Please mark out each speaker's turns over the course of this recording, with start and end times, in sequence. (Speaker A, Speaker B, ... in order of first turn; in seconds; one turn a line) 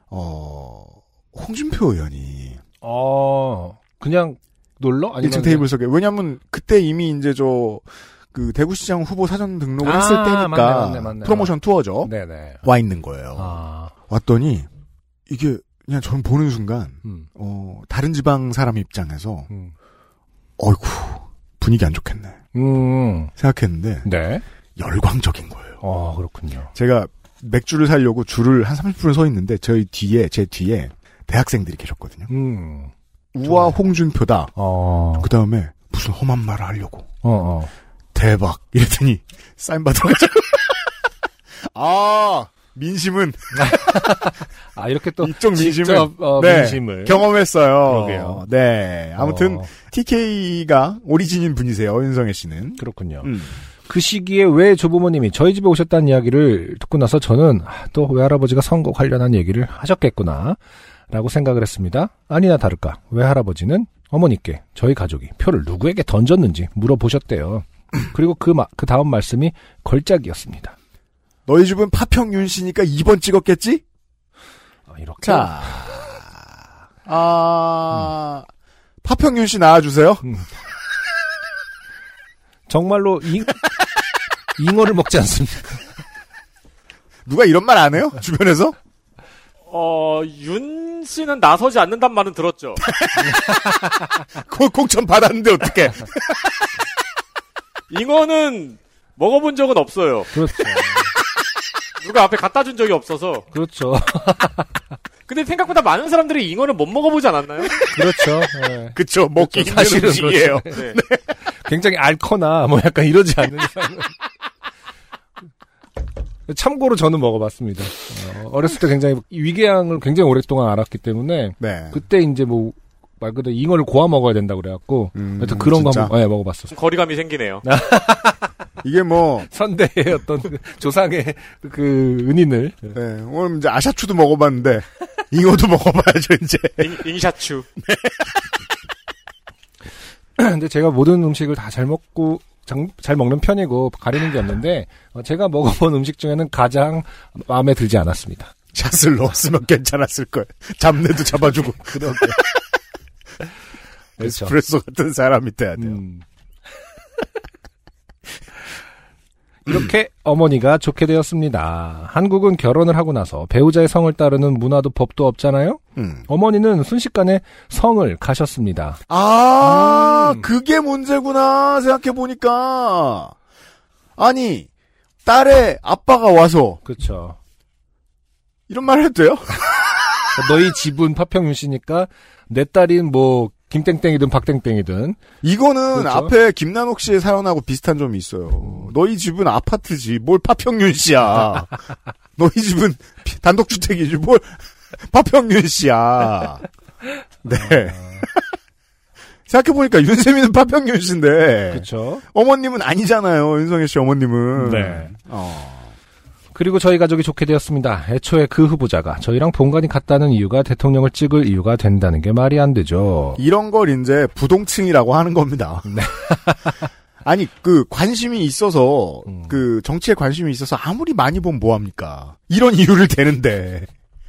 Speaker A: 0.1-2.6
Speaker B: 2.8-5.7
Speaker A: 5.2-12.1
Speaker B: 9.8-12.6
Speaker A: 12.6-14.7
Speaker B: 13.3-13.9
Speaker A: 15.3-19.5
Speaker B: 19.5-19.7
Speaker A: 20.6-22.4
Speaker B: 22.5-23.3
Speaker A: 23.4-24.1
Speaker B: 24.0-24.4
Speaker A: 24.8-25.8
Speaker B: 25.8-26.7
Speaker A: 26.7-32.3
Speaker B: 32.3-32.9
Speaker A: 33.3-34.5
Speaker B: 33.4-33.8
Speaker B: 34.5-35.3
Speaker A: 35.2-37.1
Speaker B: 37.2-37.7
Speaker A: 38.1-40.8
Speaker A: 41.7-43.7
Speaker B: 43.5-47.3
Speaker A: 45.2-53.5
Speaker B: 47.8-48.4
Speaker B: 49.2-49.7
Speaker B: 52.8-70.7
Speaker A: 71.5-73.8
Speaker B: 74.9-75.9
Speaker A: 75.2-76.2
Speaker A: 77.0-78.5
Speaker A: 79.0-80.3
Speaker B: 80.2-80.5
Speaker B: 82.7-83.6
Speaker B: 84.5-85.9
Speaker A: 87.2-88.7
Speaker C: 89.7-92.8
Speaker A: 92.8-96.5
Speaker C: 97.9-100.3
Speaker B: 100.3-101.1
Speaker C: 102.0-103.5
Speaker B: 103.5-104.8
Speaker C: 105.3-107.8
Speaker A: 107.7-111.4
Speaker B: 107.9-110.8
Speaker C: 110.7-111.0
Speaker B: 111.4-114.1
Speaker B: 116.5-126.7
Speaker A: 121.6-122.0
Speaker A: 125.1-126.1
Speaker C: 126.7-127.6
Speaker B: 127.6-128.5
Speaker A: 128.8-129.5
Speaker B: 129.4-133.0
Speaker A: 132.9-137.1
Speaker C: 136.8-137.7
Speaker A: 137.8-138.5
Speaker B: 140.4-148.5
Speaker A: 148.7-152.6
Speaker B: 151.5-152.4
Speaker A: 154.2-156.0
Speaker B: 154.2-154.5
Speaker B: 155.8-156.2
Speaker B: 159.6-169.0
Speaker A: 165.9-166.2
Speaker A: 169.1-173.3
Speaker B: 169.6-170.5
Speaker A: 174.2-174.7
Speaker A: 175.2-176.8
Speaker B: 176.8-177.4
Speaker A: 178.7-179.8
Speaker B: 180.3-185.2
Speaker A: 185.4-191.8
Speaker B: 185.9-186.3
Speaker A: 192.4-196.6
Speaker A: 197.4-198.5
Speaker A: 199.5-205.9
Speaker B: 201.7-202.2
Speaker B: 204.5-205.1
Speaker B: 206.5-213.4
Speaker A: 213.4-215.9
Speaker B: 215.8-216.9
Speaker A: 217.2-223.9
Speaker B: 219.3-219.5